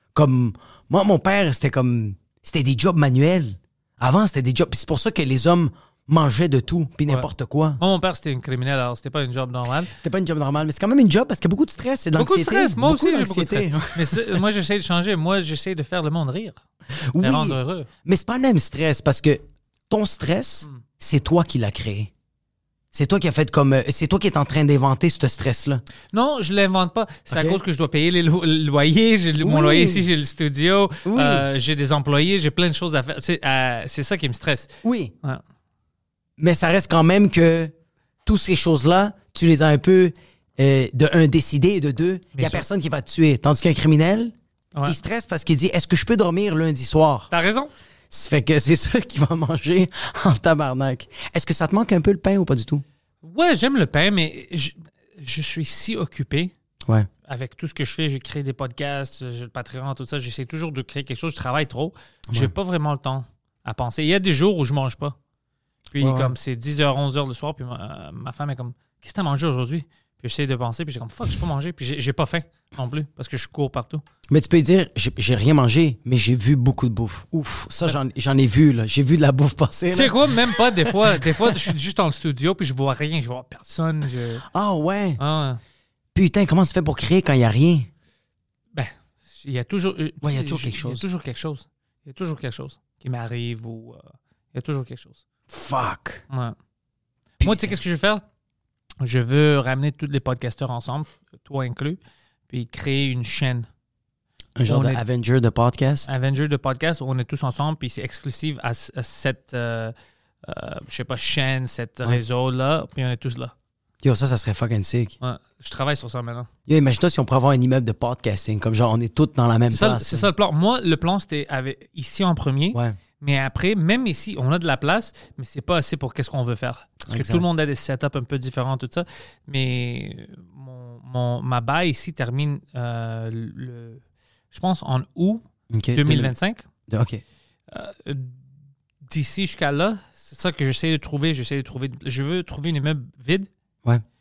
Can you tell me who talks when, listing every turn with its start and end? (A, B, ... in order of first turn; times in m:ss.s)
0:00.1-0:07.8 A
0:07.8-0:09.9 B
0:10.0-0:14.4 A
0:12.2-0:16.6 B
0:16.9-0:22.1 A
0:17.2-0:17.9 B
0:22.9-0:25.8 A
0:26.1-0:35.4 B
0:27.3-0:27.6 A
0:29.4-0:30.1 A
0:31.0-0:31.4 A
0:34.8-0:35.1 A
0:36.4-0:37.7 A
0:38.2-0:44.3 A
0:42.3-0:42.6 B
0:44.8-0:47.3 A
0:47.3-0:47.7 B
0:48.1-0:52.8 A
0:53.2-0:56.5 B
0:57.3-1:05.1 B
1:05.9-1:14.0 B
1:06.0-1:06.3 A
1:14.3-1:20.3 A
1:19.9-1:24.4 B
1:20.8-1:21.7 A
1:24.5-1:25.2 A
1:25.2-1:25.6 B
1:26.1-1:27.9 A
1:28.7-1:35.2 B
1:30.2-1:31.0 A
1:35.5-1:36.2 A
1:36.3-1:36.6 B
1:37.4-1:37.8 A
1:37.4-1:38.2 B
1:39.0-1:42.0 B
1:42.5-1:43.7 B
1:44.6-1:46.1 A
1:44.7-1:45.0 B
1:46.0-1:53.5 B
1:54.0-1:55.2 A
1:55.2-1:56.5 B
1:56.7-2:00.3 A
1:59.7-2:14.0 B
2:07.1-2:07.4 A
2:14.5-2:15.4 B
2:15.7-2:16.3 A
2:15.9-2:16.6 B
2:16.9-2:17.2 A
2:17.7-2:18.4 B
2:19.1-2:23.5 B